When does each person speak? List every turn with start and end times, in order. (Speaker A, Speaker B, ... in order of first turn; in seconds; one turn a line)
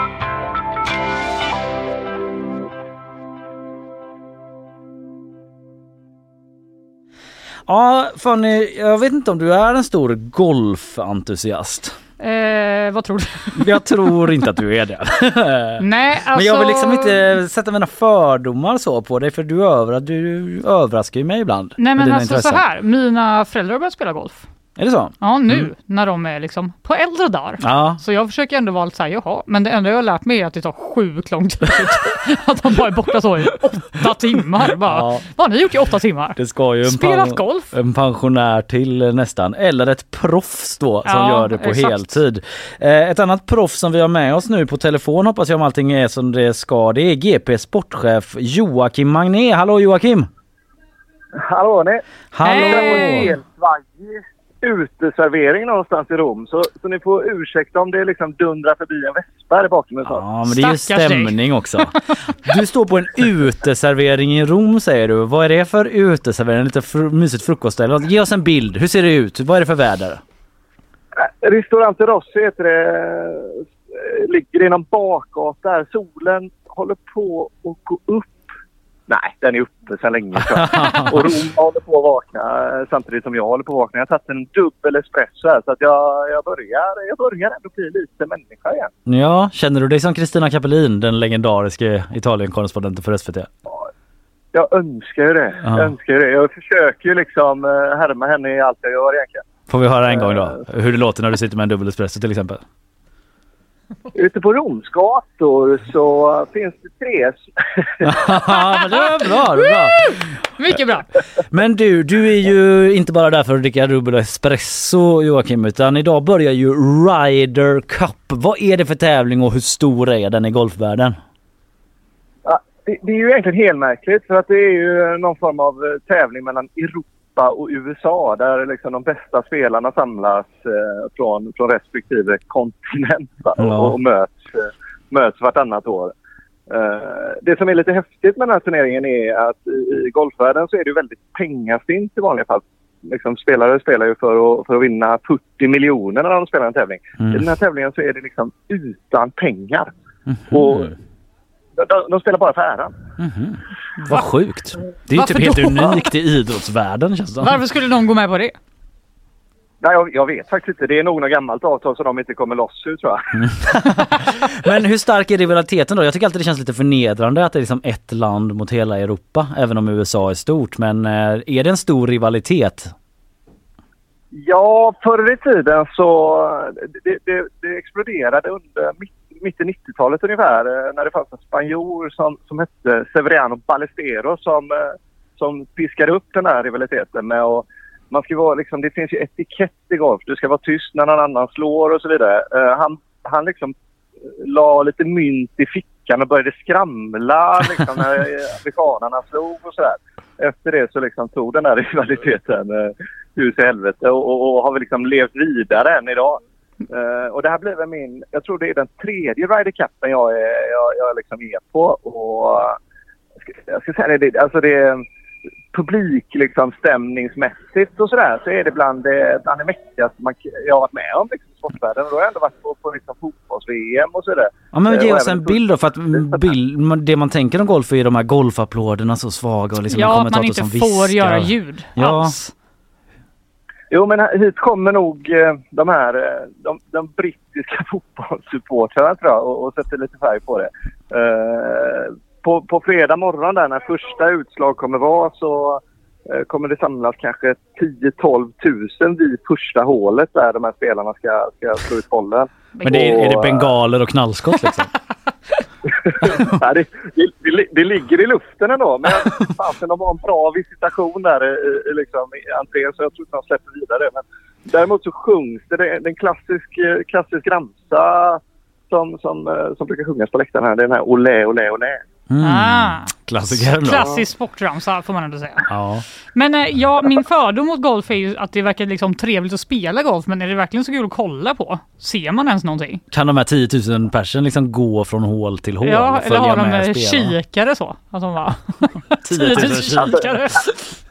Speaker A: 7.7-12.0
Speaker B: 12.2-14.4
Speaker A: 13.6-22.6
Speaker B: 15.8-17.3
Speaker B: 21.8-24.4
Speaker A: 24.8-25.7
Speaker B: 25.2-37.7
Speaker A: 27.6-28.0
Speaker A: 34.9-35.3
Speaker A: 36.4-50.3
Speaker B: 41.0-42.2
Speaker C: 51.4-60.2
Speaker A: 52.3-53.3
Speaker B: 52.4-53.3
Speaker A: 60.0-70.2
Speaker B: 60.5-62.0
Speaker C: 71.2-78.5
Speaker C: 79.1-88.9
Speaker A: 80.5-81.2
Speaker A: 89.0-93.5
Speaker C: 94.5-99.4
Speaker A: 95.6-95.9
Speaker A: 99.7-102.6
Speaker C: 100.0-100.6
Speaker C: 104.1-108.3
Speaker A: 108.0-110.2
Speaker B: 108.5-109.0
Speaker B: 109.6-111.1
Speaker A: 111.5-121.2
Speaker C: 122.4-136.1
Speaker A: 133.6-133.9
Speaker C: 136.7-149.9
Speaker A: 147.2-147.4
Speaker A: 150.5-150.9
Speaker C: 150.5-150.9
Speaker C: 151.8-152.9
Speaker A: 153.2-157.6
Speaker B: 154.0-154.3
Speaker B: 155.1-156.1
Speaker B: 157.4-158.6
Speaker C: 159.8-163.4
Speaker A: 163.4-172.9
Speaker C: 174.3-193.7
Speaker C: 194.4-212.8
Speaker C: 213.7-215.0
Speaker C: 215.7-225.6
Speaker A: 224.7-232.3
Speaker C: 226.1-226.5
Speaker B: 229.9-232.5
Speaker C: 233.9-253.7
Speaker B: 252.8-253.3
Speaker A: 252.8-254.9
Speaker C: 256.1-272.0
Speaker A: 272.3-274.2
Speaker B: 272.4-275.7
Speaker A: 275.7-276.1
Speaker B: 276.3-283.0
Speaker A: 283.1-287.3
Speaker B: 285.8-290.7
Speaker A: 289.2-290.4